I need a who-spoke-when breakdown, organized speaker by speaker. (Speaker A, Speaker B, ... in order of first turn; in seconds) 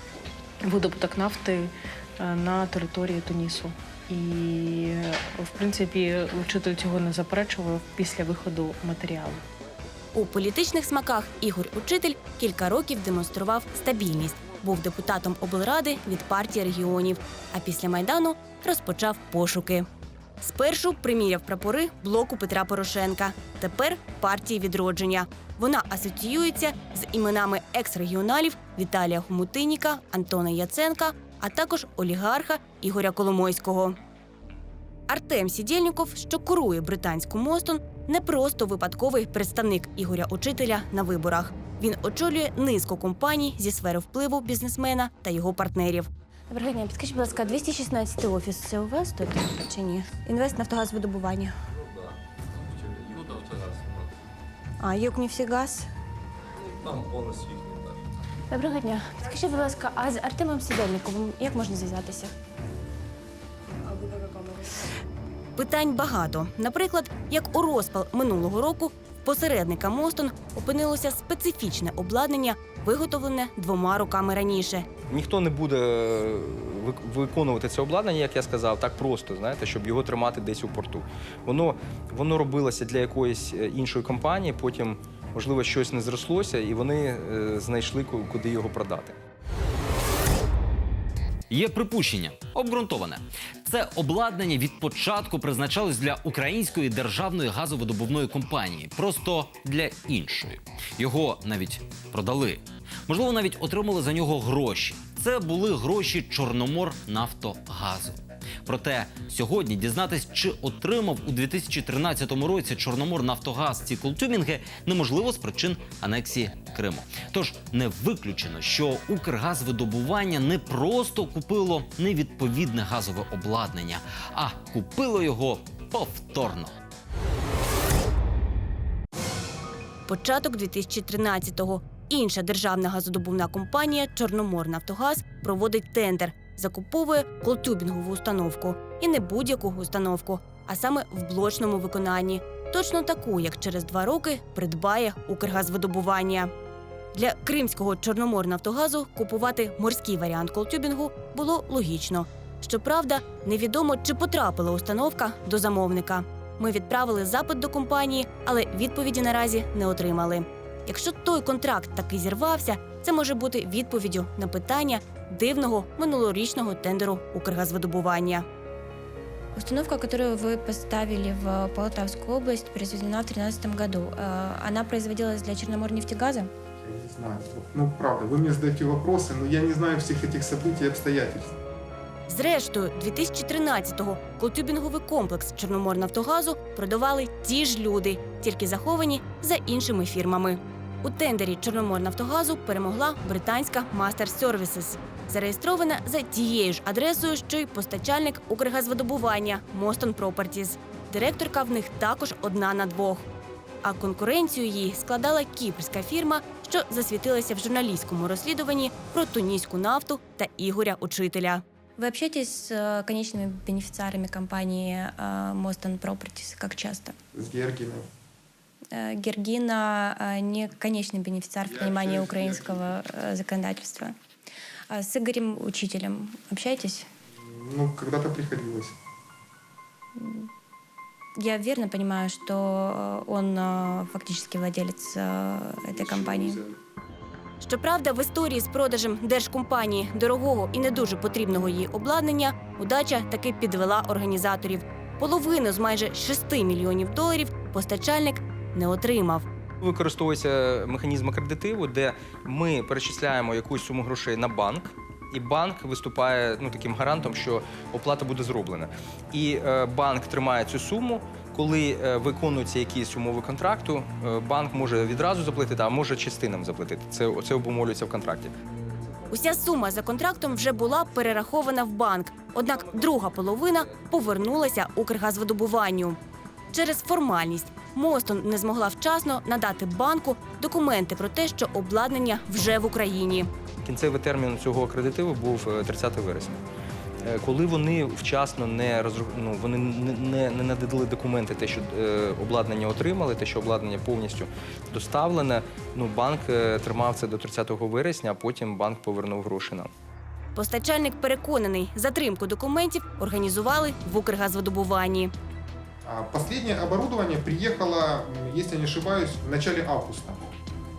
Speaker A: 0.7-9.4
Speaker B: 10.1-19.9, 20.4-34.0, 35.1-46.1, 65.6-74.9, 130.1-146.5, 147.1-168.4, 182.3-203.2, 203.8-211.6, 237.6-249.4, 269.3-276.2, 276.7-283.5, 300.6-305.3
Speaker C: 46.5-50.3, 54.9-55.8, 58.5-62.3, 64.1-64.6, 169.6-176.5, 212.0-217.2, 218.9-224.2, 224.9-227.1, 230.2-230.5, 231.4-236.7
Speaker D: 51.8-54.1, 56.8-58.0
Speaker E: 75.1-89.2, 249.8-268.5, 283.8-286.6, 287.2-299.9
Speaker F: 91.5-126.8
Speaker G: 176.8-181.6, 217.3-218.1, 221.7-222.9, 227.4-228.9, 235.9-236.7, 306.1-310.5